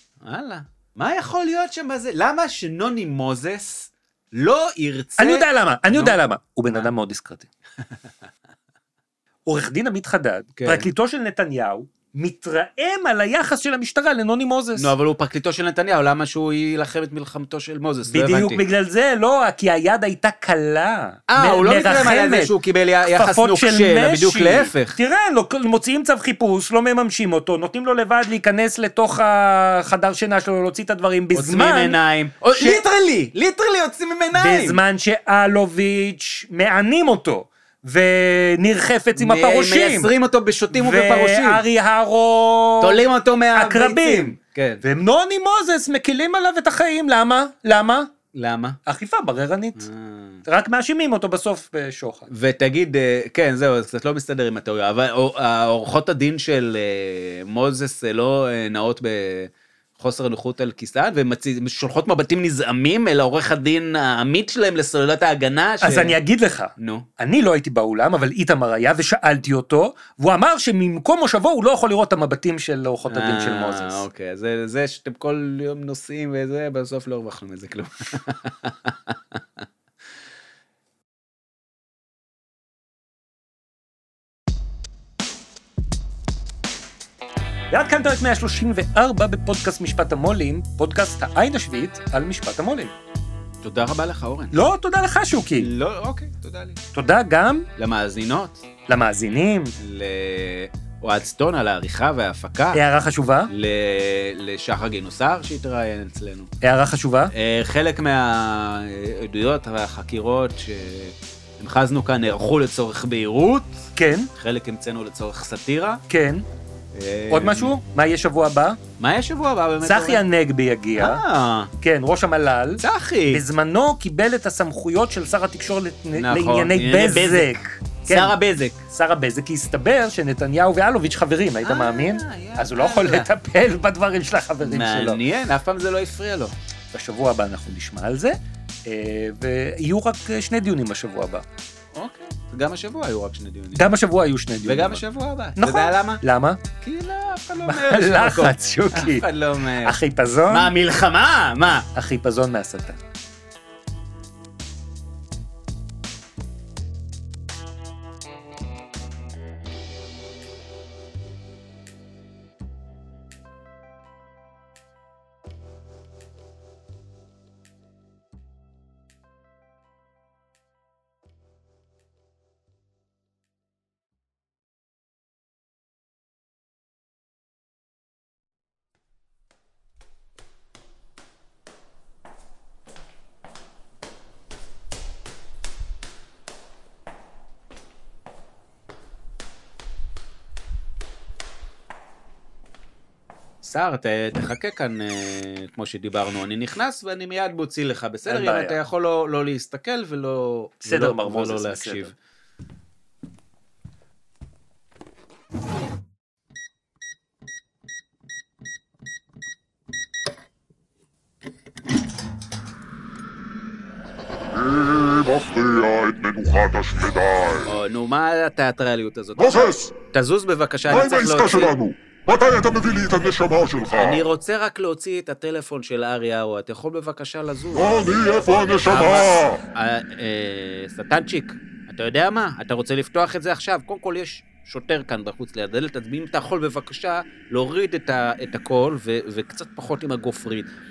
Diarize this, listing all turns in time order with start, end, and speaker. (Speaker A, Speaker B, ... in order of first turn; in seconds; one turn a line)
Speaker A: 0.2-6.9
Speaker B: 5.2-7.4
Speaker B: 9.5-14.9
Speaker A: 10.6-10.9
Speaker A: 14.8-18.6
Speaker B: 18.1-22.5
Speaker A: 21.3-25.0
Speaker B: 23.1-32.0
Speaker A: 31.3-34.8
Speaker B: 34.4-40.1
Speaker A: 39.1-41.7
Speaker B: 40.7-43.0
Speaker A: 42.8-44.8
Speaker B: 43.5-48.1
Speaker A: 48.3-48.8
Speaker B: 48.9-49.8
Speaker A: 49.8-50.4
Speaker B: 50.5-52.3
Speaker A: 52.3-66.2
Speaker B: 65.8-74.0
Speaker A: 66.8-67.1
Speaker A: 73.1-79.7
Speaker B: 87.7-92.9
Speaker A: 93.6-94.7
Speaker B: 94.5-95.7
Speaker A: 95.6-96.8
Speaker B: 97.0-97.7
Speaker A: 97.8-98.7
Speaker B: 98.9-99.7
Speaker A: 99.8-102.9
Speaker B: 102.8-103.5
Speaker A: 103.5-106.5
Speaker B: 106.6-107.3
Speaker A: 107.3-116.0
Speaker B: 114.0-114.3
Speaker B: 116.1-116.4
Speaker A: 116.9-117.8
Speaker B: 117.3-118.8
Speaker A: 119.0-120.2
Speaker B: 119.8-121.2
Speaker A: 121.0-121.7
Speaker B: 121.8-122.8
Speaker A: 122.8-123.5
Speaker B: 123.3-128.3
Speaker A: 126.1-128.8
Speaker B: 128.9-135.2
Speaker A: 131.6-133.3
Speaker A: 134.6-136.6
Speaker B: 136.9-138.4
Speaker B: 138.9-141.4
Speaker A: 141.9-143.9
Speaker B: 143.8-145.0
Speaker A: 144.6-146.2
Speaker B: 145.6-146.6
Speaker A: 146.8-151.9
Speaker B: 147.7-149.2
Speaker B: 149.9-150.7
Speaker B: 152.0-153.0
Speaker A: 193.6-202.2
Speaker B: 198.3-198.8
Speaker B: 200.8-202.1
Speaker C: 214.5-217.8
Speaker A: 217.7-221.7
Speaker C: 219.4-219.9
Speaker C: 220.9-224.2
Speaker A: 223.9-240.7
Speaker C: 227.7-229.6